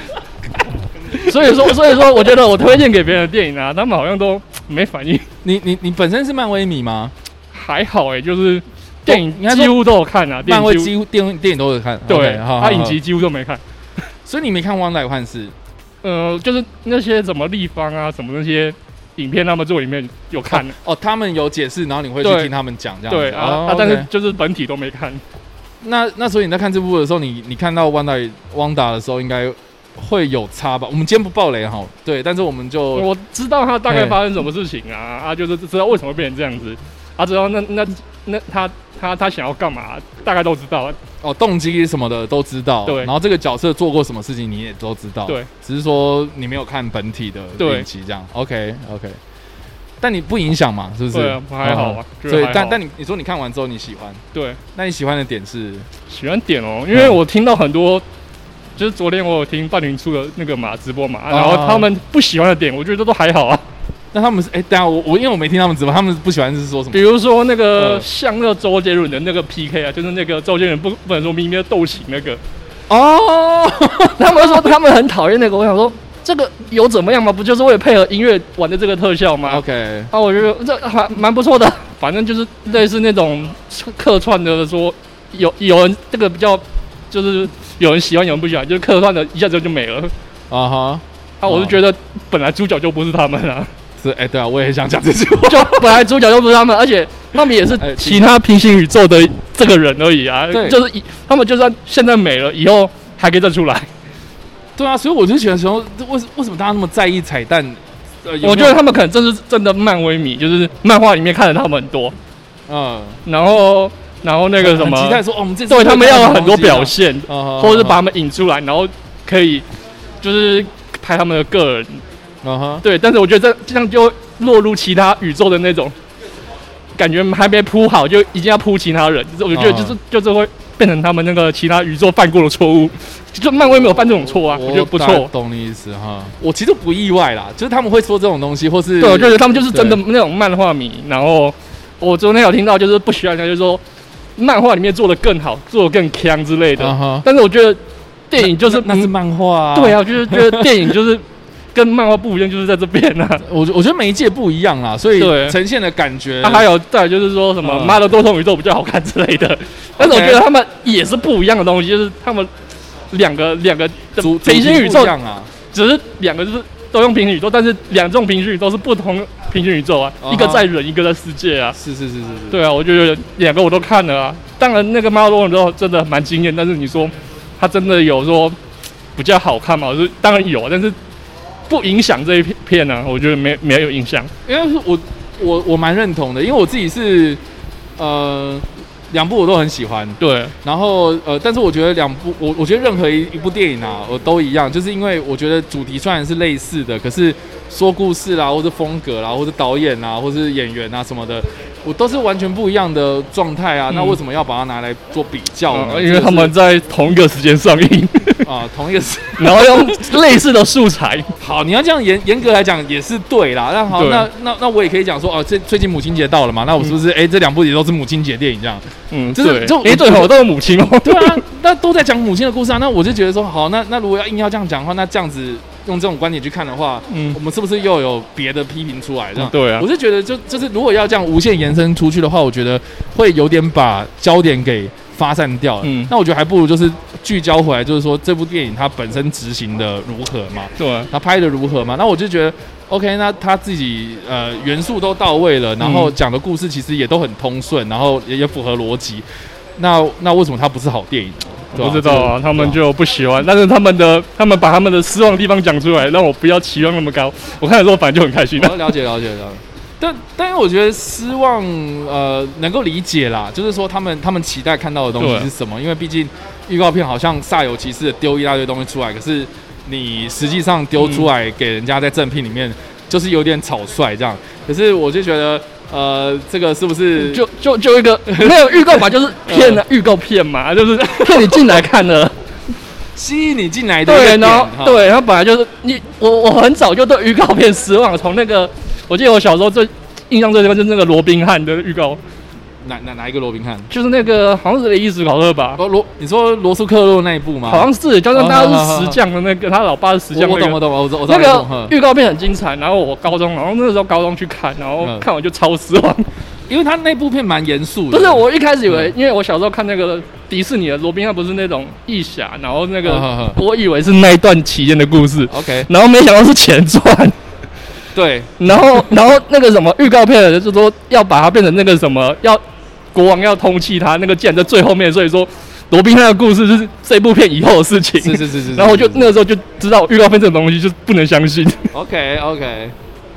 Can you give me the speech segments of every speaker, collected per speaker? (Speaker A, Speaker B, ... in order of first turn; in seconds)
Speaker A: 1.2-5.3, 7.5-10.9, 12.1-13.6, 16.0-20.7, 22.2-22.5, 23.1-25.2, 32.9-41.0, 42.9-43.1, 47.6-47.9, 51.1-52.8, 54.3-54.6, 56.1-58.0, 58.8-63.6, 66.9-72.4, 74.2-90.1, 91.4-93.7, 95.5-103.9, 108.4-112.1, 113.2-119.6, 120.2-122.0, 122.8-125.9, 127.0-135.3, 139.0-143.8, 144.3-149.1, 149.7-153.4, 155.2-155.6, 156.4-162.5, 163.1-165.1, 165.7-171.8, 172.5-178.6, 179.2-181.0, 181.7-184.3, 190.2-190.5, 203.9-204.2, 205.7-208.5, 209.4-211.3, 213.9-214.3, 219.1-221.4, 227.1-227.4, 229.3-229.9, 235.8-236.1, 240.8-241.1, 245.8-246.1, 251.7-258.8, 265.2-265.5, 271.0-271.3, 277.2-282.3, 284.1-292.2, 293.9-295.8, 297.6-306.2, 308.1-317.4, 318.6-322.6, 323.1-331.8
Speaker B: 1.3-1.7, 5.4-7.1, 9.1-9.9, 10.4-13.0, 14.2-15.5, 20.5-24.1, 25.8-33.1, 33.9-34.2, 41.2-49.2, 50.0-54.2, 54.7-55.9, 56.9-57.2, 61.3-61.9, 64.1-67.0, 67.7-68.0, 72.9-74.7, 79.5-80.1, 90.5-91.8, 94.0-96.0, 97.8-98.3, 100.5-100.8, 104.8-108.8, 112.7-113.2, 114.6-118.0, 122.4-122.8, 129.5-130.0, 134.4-140.0, 146.8-147.2, 148.4-150.9, 153.4-156.7, 157.6-158.0, 160.0-160.4, 164.2-165.5, 170.2-170.7, 171.7-172.6, 184.4-187.4, 188.0-206.5, 208.4-209.7, 211.4-220.3, 221.0-249.2, 249.8-252.8, 258.6-277.4, 278.3-279.8, 281.2-281.7, 283.1-285.1, 292.8-293.9, 295.8-299.2, 300.3-301.9, 305.0-305.3, 306.7-309.1, 313.0-313.6, 315.5-315.9, 318.1-318.7, 328.2-329.3, 331.9-332.9